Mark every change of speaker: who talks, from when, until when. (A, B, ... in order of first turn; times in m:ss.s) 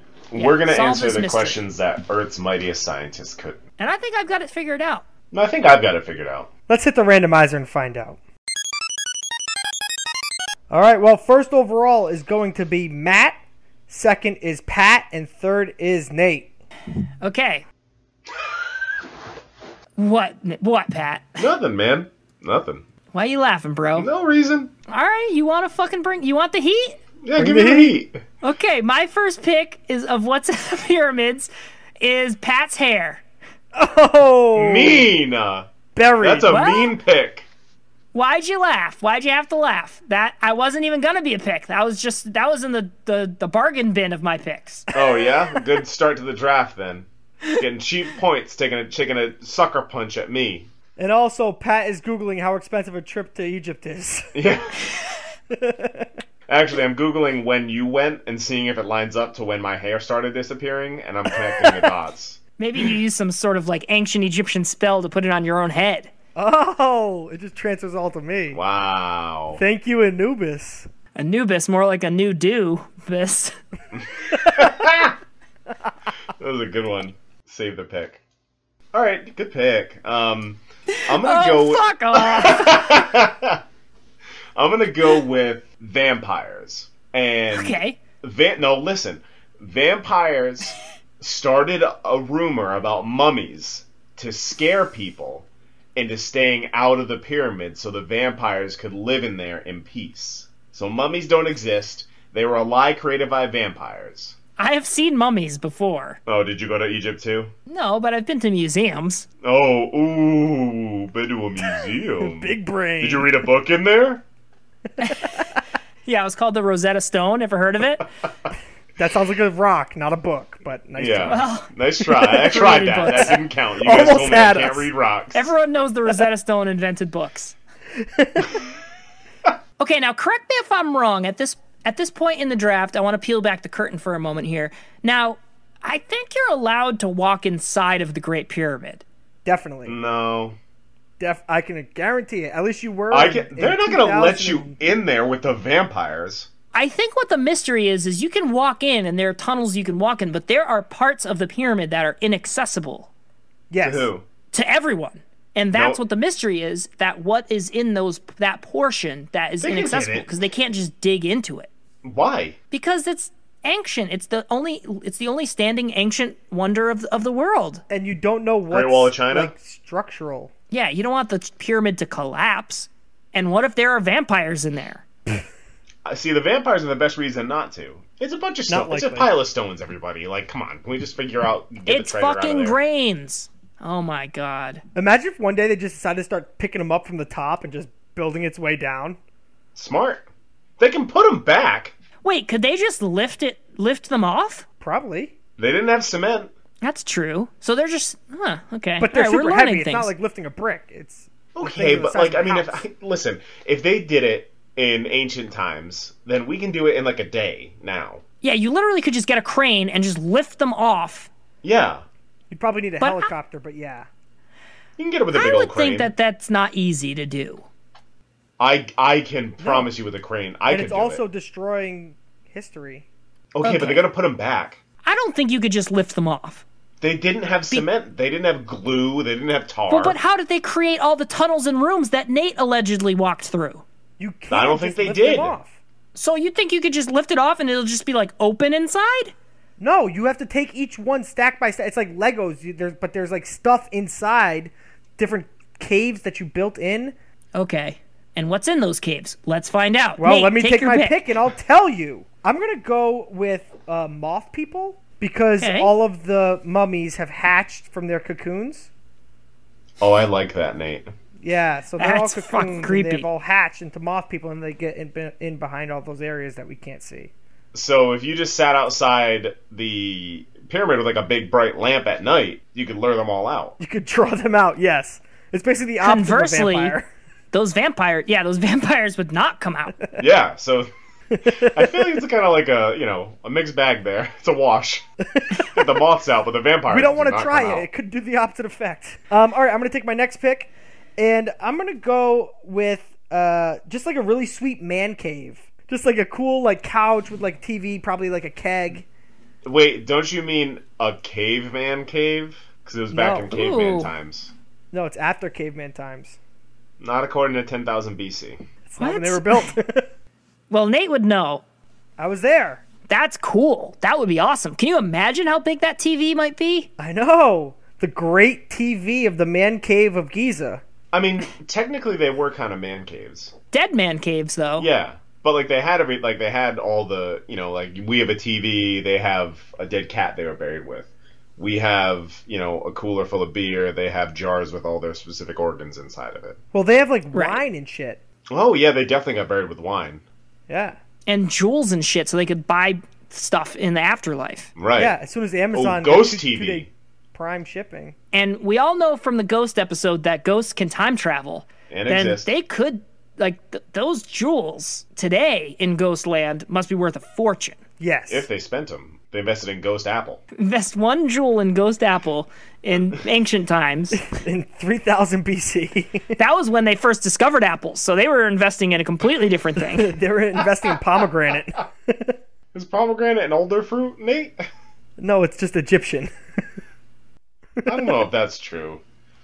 0:00.3-0:03.6 A
0:00.4-0:01.6 B
0:03.8-0:05.0 B
0:05.3-0:06.5 A
0:06.7-0:08.2 C
0:10.7-0:16.5 C
0:17.2-0:17.6 B
0:20.0-0:21.4 B
0:21.4-0:22.8 A
0:23.1-0:24.1 B
0:24.0-0:24.7 A
0:24.9-0:27.0 B
0:27.2-0:28.2 A
0:27.4-0:27.9 C
0:28.4-0:33.2 B
0:33.7-0:35.1 C
0:34.5-0:37.4 A
0:35.9-0:36.5 C
0:36.5-0:36.9 B
0:38.1-0:44.9 B
0:44.9-0:50.7 A
0:51.0-0:54.5 C
0:54.3-0:54.7 A
0:55.5-0:56.1 C
0:56.5-1:02.4 A
1:02.6-1:06.1 B
1:06.4-1:08.6 C
1:08.5-1:09.6 A
1:09.5-1:10.9 C
1:11.1-1:13.6 B
1:13.9-1:15.2 A
1:16.4-1:18.2 A
1:18.9-1:23.6 A
1:20.9-1:22.9 B
1:24.6-1:44.3 A
1:27.5-1:28.0 B
1:44.6-1:46.2 B
1:46.2-1:47.5 A
1:47.7-1:49.2 B
1:49.4-1:54.2 A
1:52.2-1:53.3 C
1:55.0-1:55.4 B
1:56.0-1:58.0 B
1:59.0-2:01.4 C
2:01.0-2:05.5 A
2:01.3-2:01.7 B
2:02.2-2:03.4 B
2:02.2-2:02.6 C
2:03.3-2:04.9 C
2:05.3-2:07.6 B
2:08.0-2:08.6 C
2:09.8-2:19.0 B
2:19.4-2:20.0 C
2:19.8-2:20.6 A
2:21.2-2:24.8 C
2:23.1-2:26.5 A
2:26.7-2:33.1 B
2:33.7-2:34.1 C
2:33.8-2:34.2 A
2:34.5-2:41.7 B
2:35.7-2:36.0 A
2:39.6-2:40.3 A
2:42.0-2:42.6 A
2:42.7-2:47.8 B
2:47.9-2:50.5 C
2:48.7-2:49.5 A
2:50.7-2:55.0 B
2:56.0-3:02.8 A
2:58.7-2:59.3 C
3:01.9-3:04.8 B
3:04.9-3:09.2 C
3:09.7-3:10.2 A
3:10.8-3:11.9 A
3:12.2-3:14.6 B
3:14.8-3:15.3 C
3:15.6-3:16.5 A
3:16.8-3:20.1 B
3:19.0-3:22.8 C
3:21.5-3:28.2 A
3:28.4-3:31.3 B
3:31.6-3:32.0 A
3:32.5-3:34.1 C
3:33.0-3:33.3 B
3:35.0-3:36.1 A
3:35.3-3:37.6 B
3:38.6-3:41.2 A
3:39.6-3:39.9 C
3:40.7-3:43.1 C
3:43.5-3:44.8 A
3:43.6-3:44.0 B
3:45.0-3:46.6 B
3:47.0-3:50.2 A
3:49.9-3:53.8 B
3:54.2-3:55.8 C
3:54.5-3:55.6 A
3:56.1-3:59.3 B
3:59.8-4:07.1 C
4:07.6-4:11.2 B
4:10.2-4:18.9 C
4:15.6-4:15.9 B
4:20.0-4:21.1 A
4:21.4-4:27.3 C
4:22.0-4:23.3 B
4:27.7-4:33.8 A
4:33.8-4:37.1 C
4:36.0-4:37.0 B
4:37.5-4:40.0 B
4:40.2-4:40.9 A
4:41.3-4:42.2 C
4:41.5-4:45.0 A
4:45.3-4:46.0 C
4:45.5-4:47.9 A
4:46.9-4:59.0 C
4:59.6-5:04.5 A
5:03.1-5:03.5 C
5:03.5-5:04.1 B
5:04.9-5:06.4 C
5:07.0-5:08.6 A
5:08.9-5:10.1 C
5:09.0-5:09.7 B
5:10.7-5:11.6 B
5:12.2-5:12.8 C
5:13.1-5:16.9 B
5:17.0-5:20.8 C
5:21.1-5:23.5 A
5:23.7-5:24.9 B
5:24.8-5:36.6 A
5:36.7-5:38.2 C
5:37.3-5:37.6 B
5:38.5-5:40.2 A
5:40.7-5:41.0 C
5:41.3-5:44.7 B
5:44.8-5:45.1 A
5:45.0-5:48.1 C
5:45.7-5:46.9 A
5:48.3-5:57.8 B
5:51.9-5:52.5 A
5:58.0-5:58.4 C
5:58.3-6:00.4 A
6:00.6-6:04.2 B
6:04.2-6:06.4 C
6:06.4-6:10.1 B
6:09.9-6:12.4 C
6:12.7-6:14.6 A
6:15.2-6:16.3 C
6:17.8-6:18.2 C
6:17.8-6:19.0 A